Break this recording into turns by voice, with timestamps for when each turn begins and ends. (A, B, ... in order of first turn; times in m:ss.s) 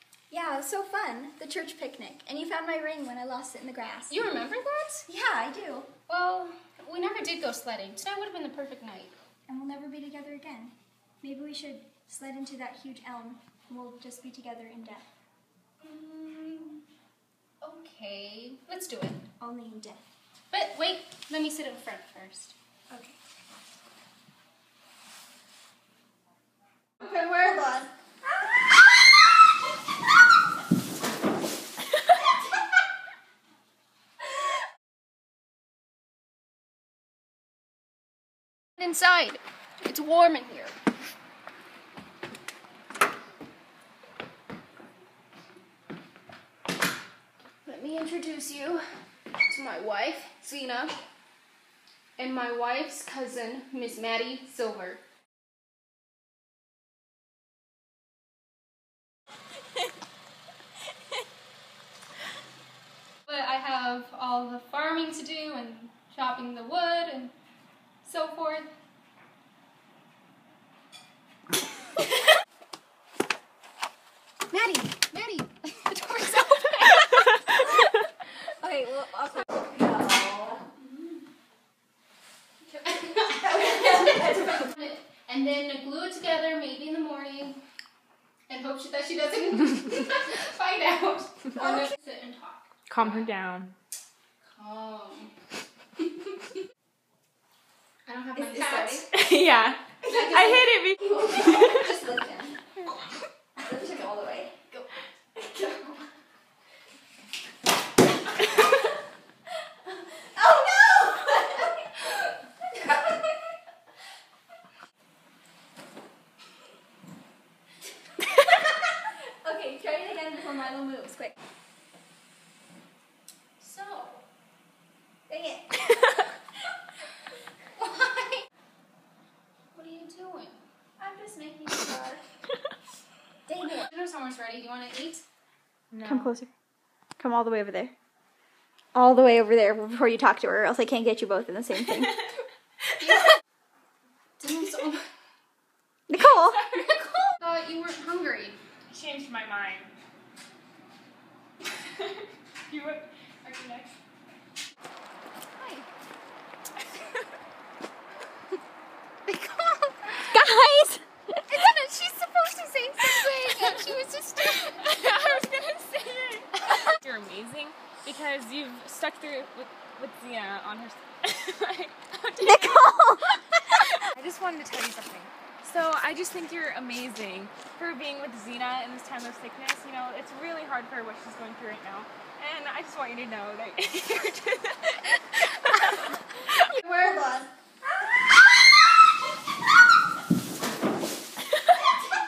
0:00.3-0:04.2 A
0:04.1-0:05.0 B
0:05.1-0:05.9 A
0:06.1-0:09.1 B
0:09.5-0:15.1 A
0:15.8-0:16.8 B
0:17.6-0:19.2 B
0:19.4-0:20.1 A
0:20.5-0:22.6 B
0:27.0-0:28.7 A
0:38.8-0:40.8 B
0:47.6-0:48.8 B
0:49.5-0:51.0 B
0:52.2-0:55.0 B
1:03.2-1:07.3 B
1:08.0-1:08.7 B
1:14.5-1:17.4 B
1:17.6-1:17.9 A
1:18.6-1:20.8 A
1:22.6-1:27.6 B
1:23.5-1:24.6 A
1:28.5-1:33.2 B
1:32.9-1:33.7 C
1:34.4-1:35.3 B
1:38.0-1:39.1 B
1:38.3-1:39.1 A
1:39.1-1:41.9 C
1:40.0-1:42.6 A
1:43.6-1:46.1 A
1:49.9-1:52.0 A
1:52.7-1:53.1 A
1:59.4-2:01.3 A
2:03.6-2:04.2 B
2:05.3-2:06.3 A
2:07.8-2:08.4 B
2:09.7-2:10.6 B
2:11.0-2:12.2 A
2:13.5-2:15.2 B
2:16.0-2:16.5 A
2:17.2-2:17.9 A
2:18.9-2:22.3 A
2:24.4-2:25.1 B
2:26.1-2:26.7 A
2:26.6-2:28.6 B
2:28.9-2:29.9 C
2:31.8-2:33.9 C
2:35.6-2:35.9 B
2:39.2-2:40.2 B
2:40.2-2:41.4 A
2:41.5-2:45.4 B
2:44.5-3:06.8 C
2:52.4-2:53.4 A
3:06.8-3:08.1 A